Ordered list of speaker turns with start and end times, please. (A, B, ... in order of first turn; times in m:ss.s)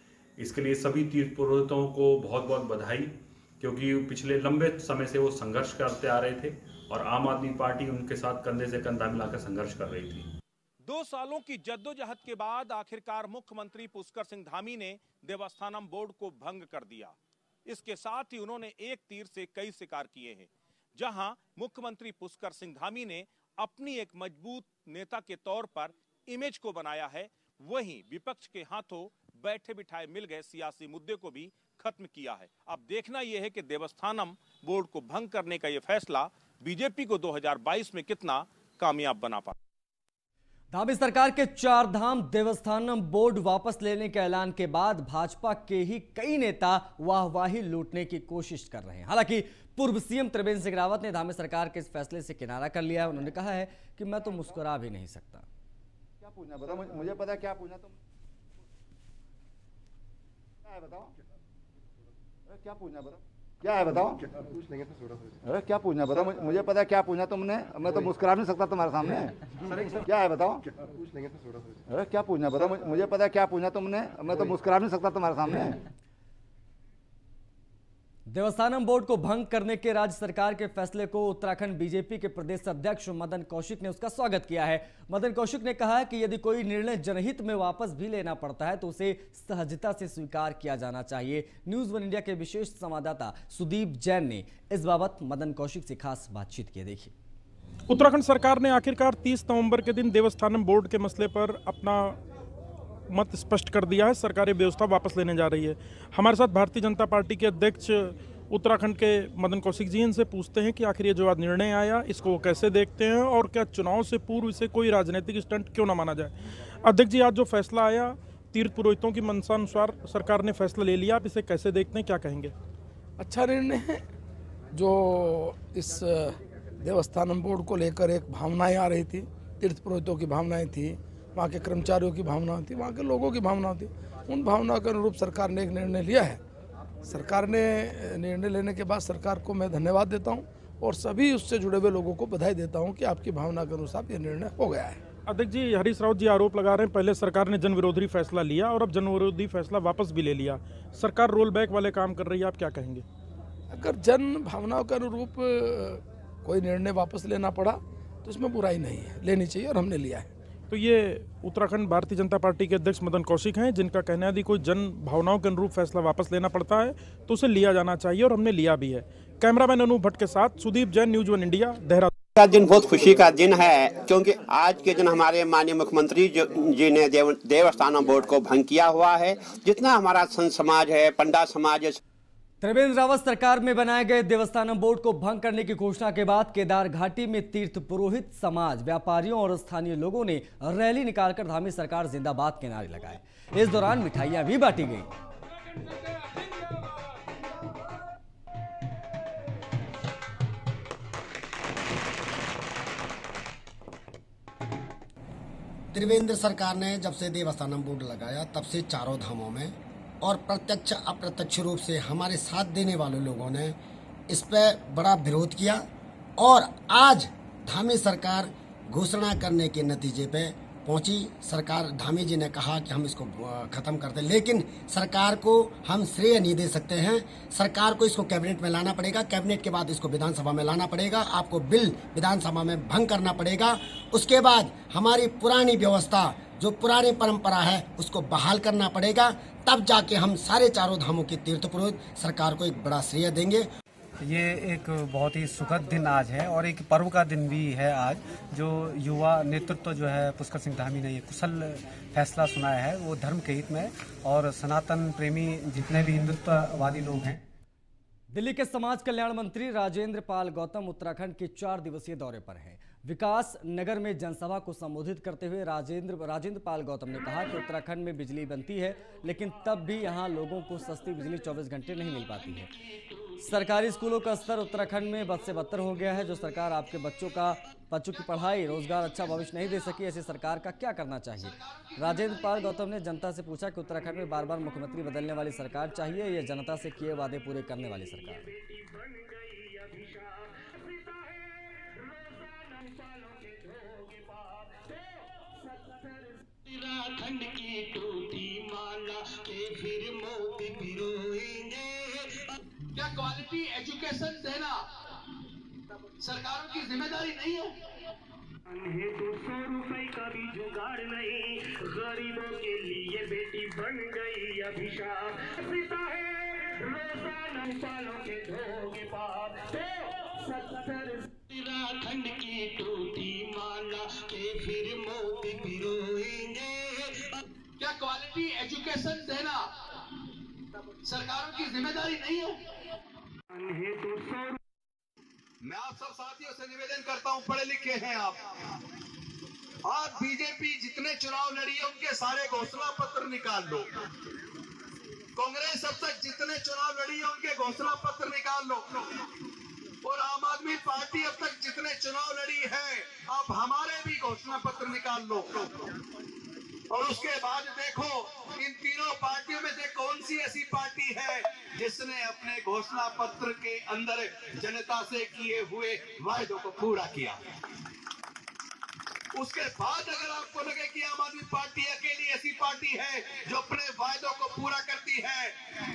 0:00.4-0:10.3 A
0:10.9-0:17.1 B
0:17.7-0:39.5 B
0:40.7-0:55.4 C
0:56.2-0:58.0 D
1:00.6-1:01.1 D
1:02.5-1:04.3 D
1:05.4-1:09.3 D
1:10.0-1:10.7 D
1:11.9-1:15.8 D
1:18.3-1:37.1 C
1:37.9-1:42.2 E
1:43.1-2:02.5 E
2:03.2-2:04.0 F
2:04.7-2:16.4 F
2:17.0-2:25.0 F
2:25.3-2:33.0 E
2:33.7-2:40.3 F
2:40.7-2:52.1 E
2:52.4-3:02.0 G
3:02.6-3:15.1 C
3:25.9-3:33.8 H
3:34.3-3:35.8 H
3:36.4-4:03.7 H
4:04.2-4:17.4 I
4:18.3-4:32.7 C
4:33.4-4:48.5 C
4:41.4-4:42.2 J
4:48.4-5:02.4 J
5:02.9-5:04.8 J
5:06.1-5:07.8 J
5:08.7-5:27.3 J
5:27.8-5:29.7 J
5:31.0-5:32.6 J
5:33.6-5:34.5 J
5:35.6-5:38.5 K
5:39.8-5:43.9 K
5:45.4-5:49.0 K
5:50.0-5:55.7 K
5:56.9-6:07.4 K
6:09.3-6:15.6 K